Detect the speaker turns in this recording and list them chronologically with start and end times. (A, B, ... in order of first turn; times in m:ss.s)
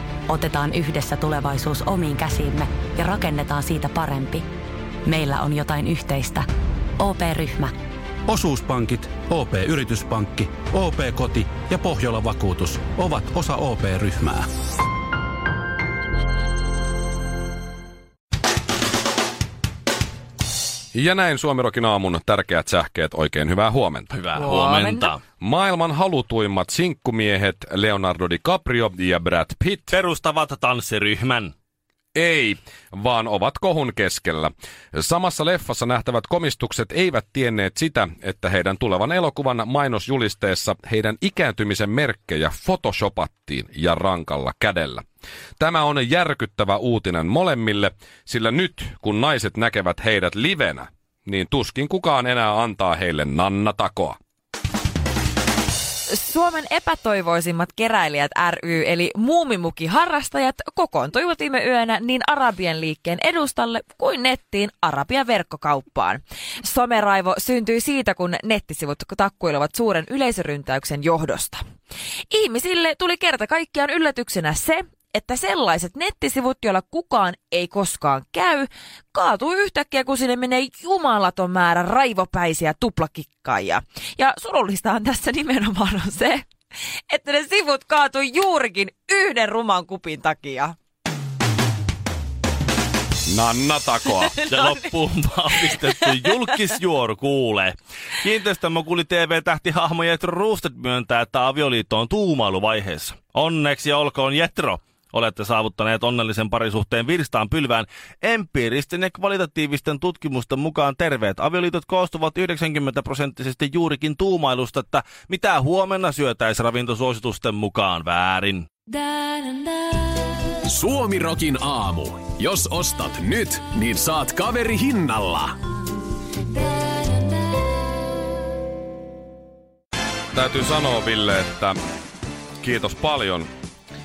0:00.3-0:04.4 A
0:05.1-0:06.5 A
0:07.0-0:07.8 A
0:08.3-0:14.5 B
0:20.9-0:24.1 C
0:24.1-0:25.2 D
0:24.4-0:25.1 E
0:25.4-0:30.0 C
0:29.9-0:31.5 D
0:32.1-0:45.0 C
0:45.6-0:54.2 C
0:56.0-1:11.6 E
1:12.3-1:26.5 E
1:27.1-1:30.8 E
1:33.3-1:34.4 C
1:34.1-1:34.9 E
1:34.5-1:58.7 D
1:35.5-1:36.3 E
2:00.7-2:05.6 F
2:10.3-2:11.8 C
2:12.6-2:13.5 C